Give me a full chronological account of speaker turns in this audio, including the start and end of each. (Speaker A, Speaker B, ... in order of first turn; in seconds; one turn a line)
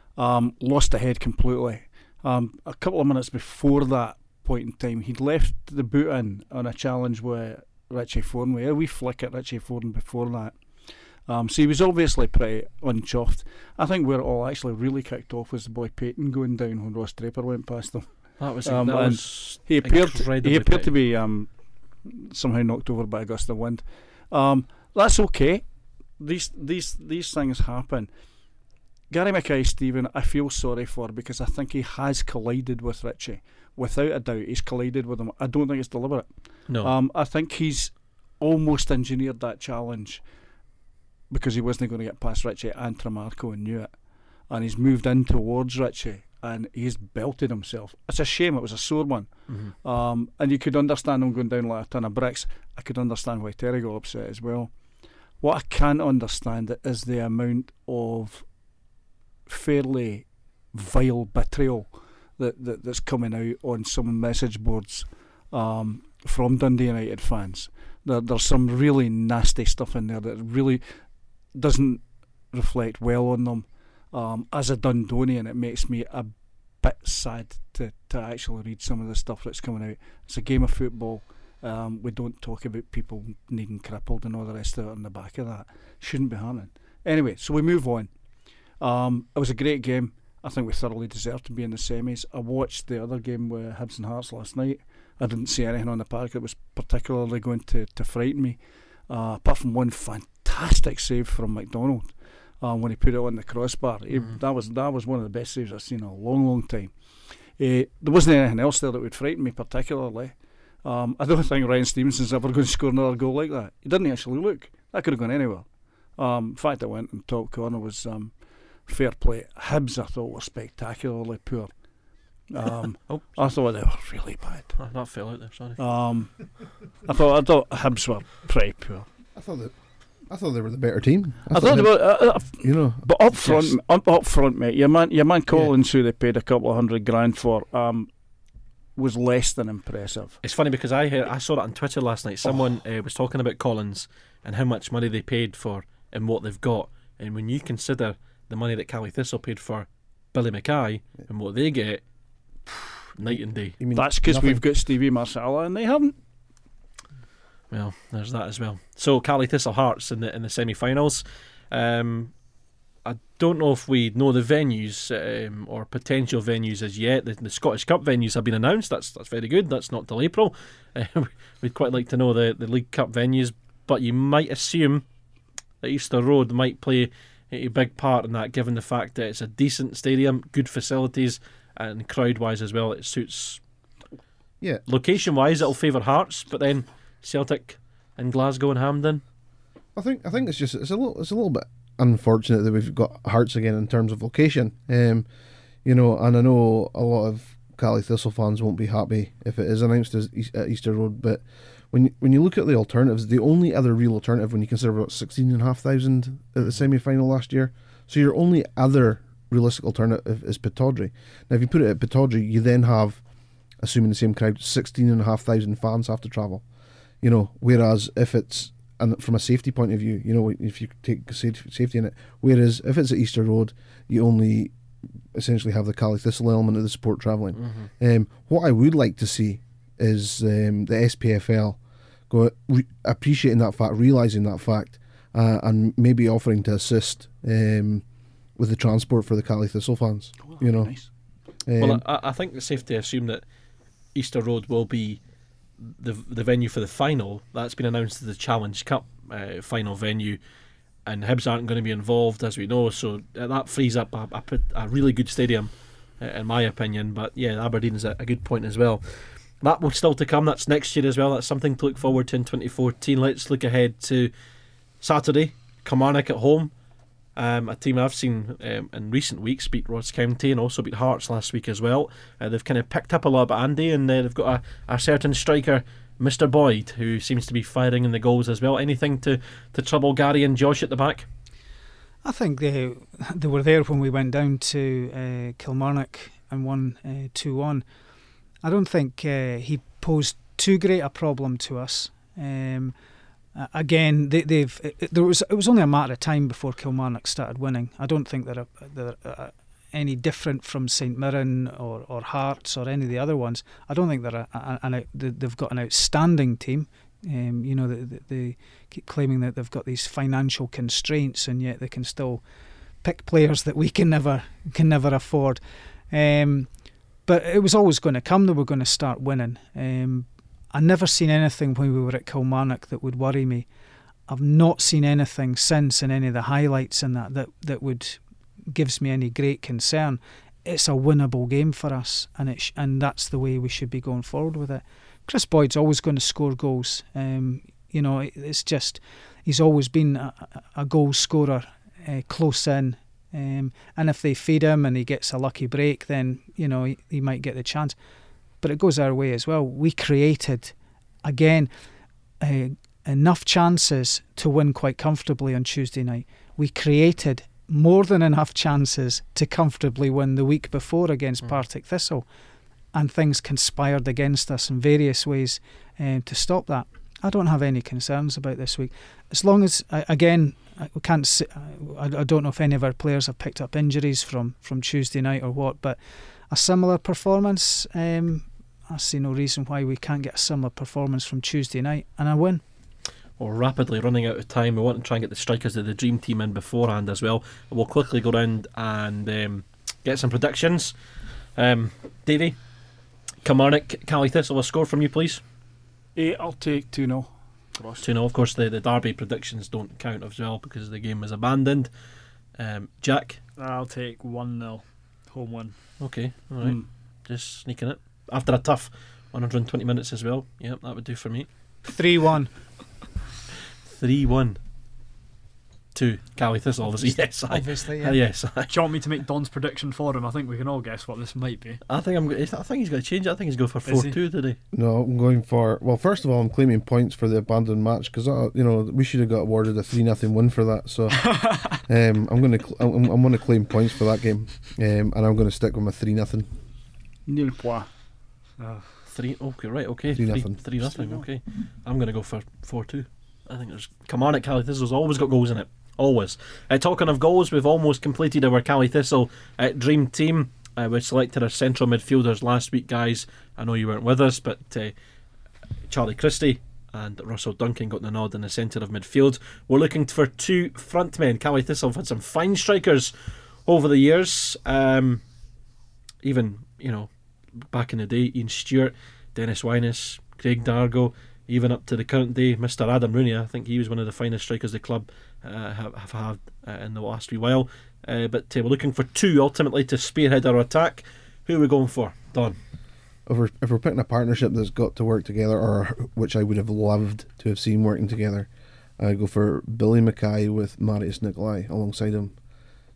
Speaker A: 0.1-28.1
Speaker B: 18.4-20.9
Speaker A: 29.1-40.2
Speaker B: 36.7-36.9
Speaker A: 41.3-54.8
Speaker B: 49.5-49.7
Speaker A: 55.4-58.5
Speaker A: 59.5-88.1
Speaker A: 88.8-107.0
Speaker B: 104.1-104.4
Speaker A: 107.5-118.3
Speaker A: 118.9-121.7
Speaker A: 122.5-124.7
Speaker B: 123.1-123.4
Speaker B: 124.8-125.8
Speaker A: 125.8-129.1
Speaker C: 129.3-129.8
Speaker C: 130.3-133.1
Speaker A: 131.5-138.1
Speaker B: 133.4-133.8
Speaker A: 139.0-140.4
Speaker B: 140.4-152.0
Speaker B: 152.7-153.8
Speaker C: 153.8-154.6
Speaker A: 153.9-156.2
Speaker B: 157.7-162.4
Speaker B: 163.0-175.1
Speaker B: 175.8-183.6
Speaker B: 184.9-189.2
Speaker C: 190.0-195.3
Speaker C: 195.8-213.2
Speaker C: 213.8-216.6
Speaker C: 217.2-224.7
Speaker C: 225.3-238.0
Speaker B: 227.6-227.9
Speaker C: 238.6-240.9
Speaker A: 240.4-241.1
Speaker C: 241.7-242.0
Speaker B: 241.8-243.4
Speaker B: 244.1-245.2
Speaker B: 245.8-250.4
Speaker B: 251.1-264.3
Speaker B: 265.0-266.7
Speaker B: 267.4-281.3
Speaker D: 282.2-287.9
Speaker D: 288.6-292.9
Speaker D: 293.6-312.4
Speaker D: 313.0-316.7
Speaker D: 317.3-323.7
Speaker D: 324.3-348.0
Speaker D: 348.6-351.7
Speaker D: 352.4-362.3
Speaker D: 362.9-382.6
Speaker B: 383.4-390.9
Speaker B: 391.6-392.6
Speaker B: 393.4-395.4
Speaker A: 396.2-398.1
Speaker B: 398.0-401.9
Speaker B: 402.6-403.4
Speaker E: 403.6-405.8
Speaker B: 406.0-411.5
Speaker A: 406.6-406.9
Speaker D: 411.9-412.5
Speaker B: 413.9-414.6
Speaker B: 415.9-418.7
Speaker D: 417.0-418.2
Speaker E: 418.7-421.8
Speaker B: 421.9-424.6
Speaker E: 423.9-424.2
Speaker C: 424.7-436.5
Speaker E: 431.2-431.8
Speaker A: 437.3-437.9
Speaker E: 438.6-438.9
Speaker B: 439.1-454.9
Speaker C: 440.1-440.6
Speaker A: 440.9-441.2
Speaker B: 455.9-463.1
Speaker B: 463.7-465.2
Speaker B: 466.2-467.1
Speaker B: 467.6-482.6
Speaker C: 483.3-492.4